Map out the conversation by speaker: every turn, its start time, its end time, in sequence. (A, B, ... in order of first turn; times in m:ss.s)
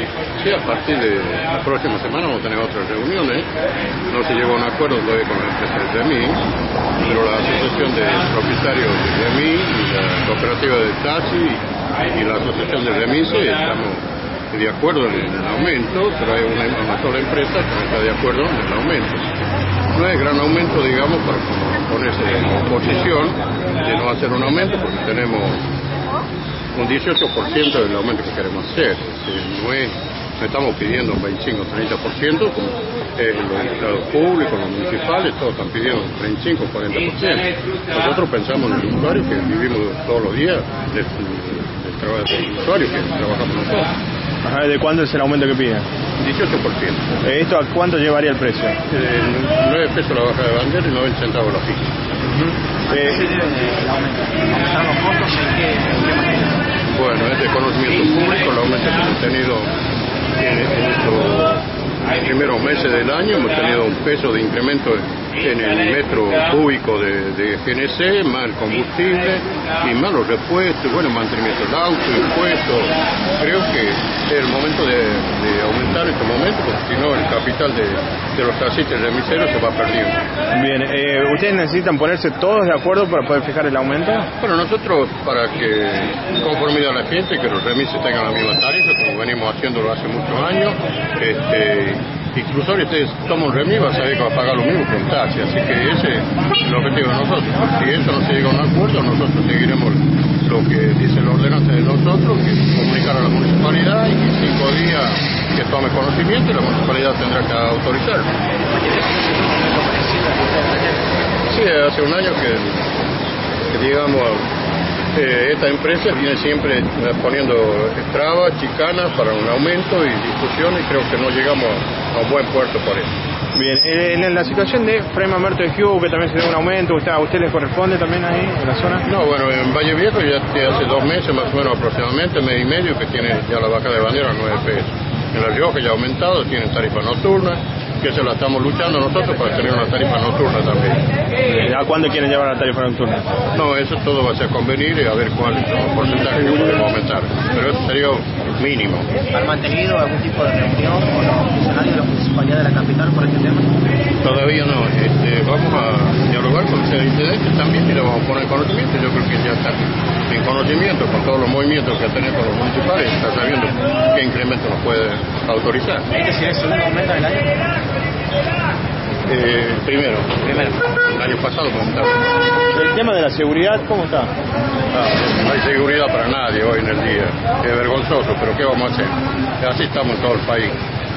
0:00.4-0:03.5 A
0:04.1-0:06.4 A
0:07.0-0:19.2 A
0:19.9-0:25.6 A
0:26.7-0:43.9 A
0:44.4-0:45.9 B
0:46.2-0:47.0 A
0:47.2-0:48.8 B
0:48.9-0:51.9 A
0:52.3-0:53.2 B
0:52.9-0:56.6 C
0:56.8-0:59.7 A
1:00.4-1:01.6 A
1:02.2-1:20.2 A
1:20.5-1:24.3 B
1:24.4-1:48.3 A
1:48.7-1:51.3 C
1:51.5-1:52.9 A
1:53.7-1:54.4 A
1:55.1-2:03.1 A
2:03.5-2:09.0 B
2:09.0-2:21.0 A
2:21.4-2:23.3 B
2:23.5-2:29.1 A
2:29.3-2:33.7 C
2:34.2-2:46.0 A
2:46.1-2:47.5 C
2:49.3-2:52.2 A
2:52.7-2:54.3 B
2:54.9-3:00.8 A